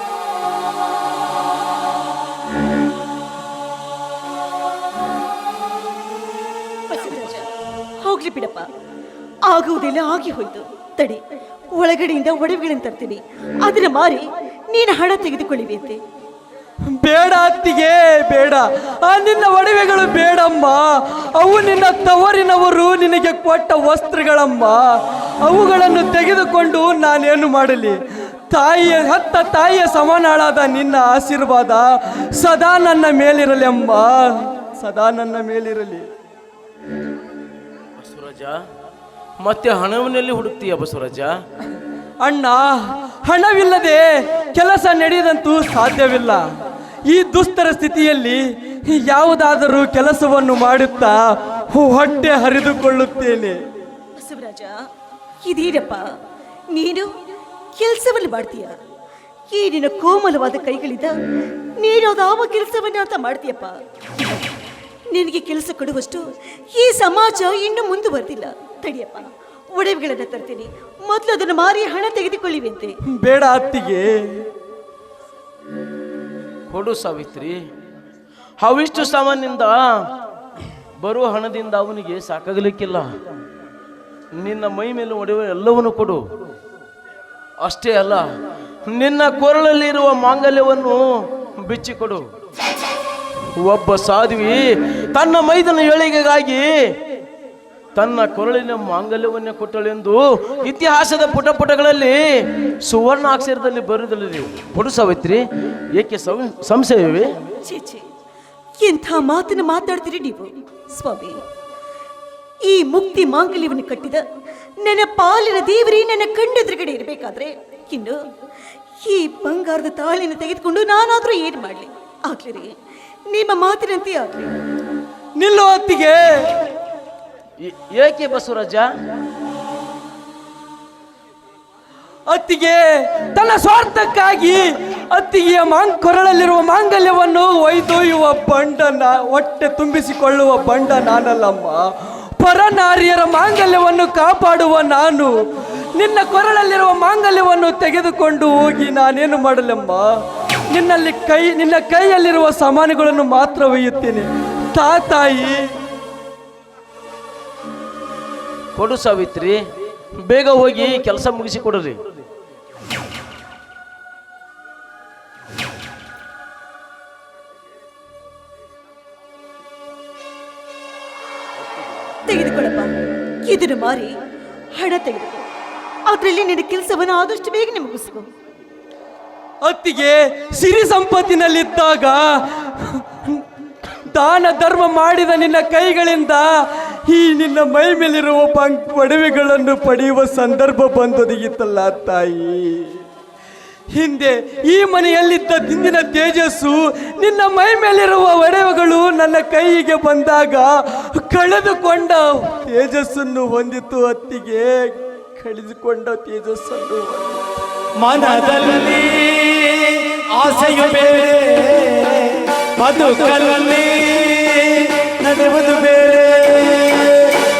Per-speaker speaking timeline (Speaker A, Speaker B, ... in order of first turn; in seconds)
Speaker A: 6.9-7.5, 8.0-8.7, 9.4-11.2, 11.8-16.0, 54.2-54.7, 55.4-56.1, 56.7-57.1, 57.8-58.8, 59.5-61.1, 61.8-64.4, 65.1-66.2, 66.7-72.9, 107.7-108.0, 108.8-111.4, 112.7-114.2, 114.8-118.2, 119.0-122.7, 123.3-124.5, 172.3-172.9, 173.4-174.1, 174.8-175.4, 176.1-178.3
Speaker B: 17.0-24.9, 25.4-27.9, 28.5-36.1, 42.2-46.4, 47.1-51.2, 51.7-53.6, 73.1-74.4, 125.4-126.6, 132.3-141.8, 142.4-145.3, 145.9-150.1, 150.7-155.6, 179.6-183.4, 184.1-186.5, 187.1-192.9, 193.9-207.4
Speaker C: 38.0-38.6, 39.4-41.4, 76.7-77.6, 78.6-80.0, 81.0-83.1, 84.4-86.2, 87.6-88.2, 88.9-92.2, 93.6-96.9, 98.0-107.4, 127.6-128.9, 158.8-159.6, 160.2-162.0
Speaker D: 208.0-217.3